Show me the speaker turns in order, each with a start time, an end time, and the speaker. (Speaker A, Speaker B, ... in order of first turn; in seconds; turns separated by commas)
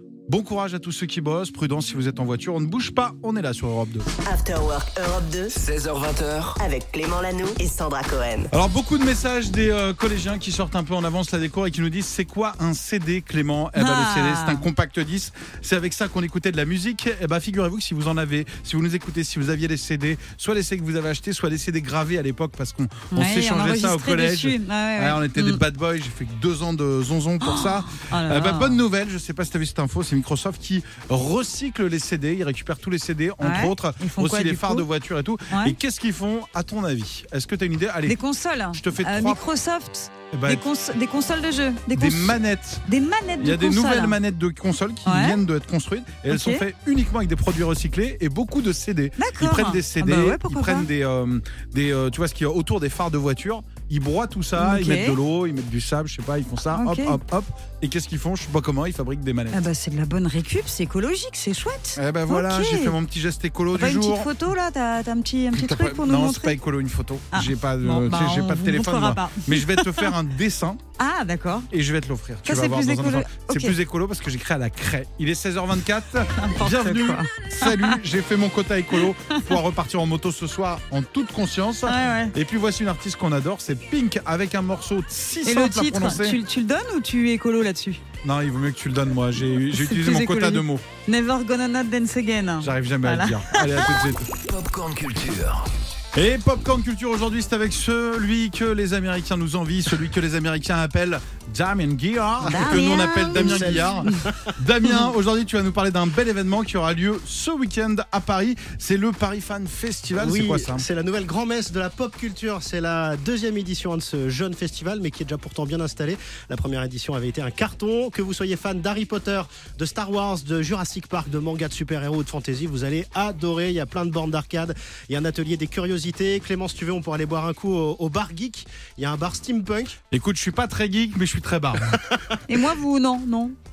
Speaker A: 0.3-4.1, Speaker B: 4.3-5.5, Speaker C: 5.5-6.6, Speaker B: 6.6-8.5, Speaker A: 8.5-38.2, Speaker D: 13.8-14.7, Speaker D: 23.1-25.6, Speaker D: 27.4-28.8, Speaker D: 33.4-34.9, Speaker D: 35.5-35.8, Speaker D: 38.1-44.2, Speaker A: 38.7-39.4, Speaker A: 40.3-40.6, Speaker A: 41.9-42.8, Speaker A: 43.4-59.6, Speaker D: 45.0-45.4, Speaker D: 46.3-46.6, Speaker D: 49.2-50.9, Speaker D: 54.6-55.2, Speaker D: 56.7-57.2, Speaker D: 59.5-63.0, Speaker A: 62.0-64.3, Speaker D: 63.7-66.6, Speaker A: 65.5-70.8, Speaker D: 67.3-70.1, Speaker D: 71.0-71.7, Speaker A: 71.7-86.4, Speaker D: 72.5-73.8, Speaker D: 76.4-78.0, Speaker D: 81.9-82.3, Speaker D: 85.5-88.0, Speaker A: 88.2-90.8, Speaker D: 89.7-94.0, Speaker A: 92.6-94.3, Speaker C: 94.5-95.7, Speaker A: 96.2-110.8, Speaker D: 102.4-104.0, Speaker E: 103.3-104.5, Speaker E: 110.2-130.0, Speaker A: 130.1-132.0, Speaker E: 131.9-132.4, Speaker D: 132.5-133.6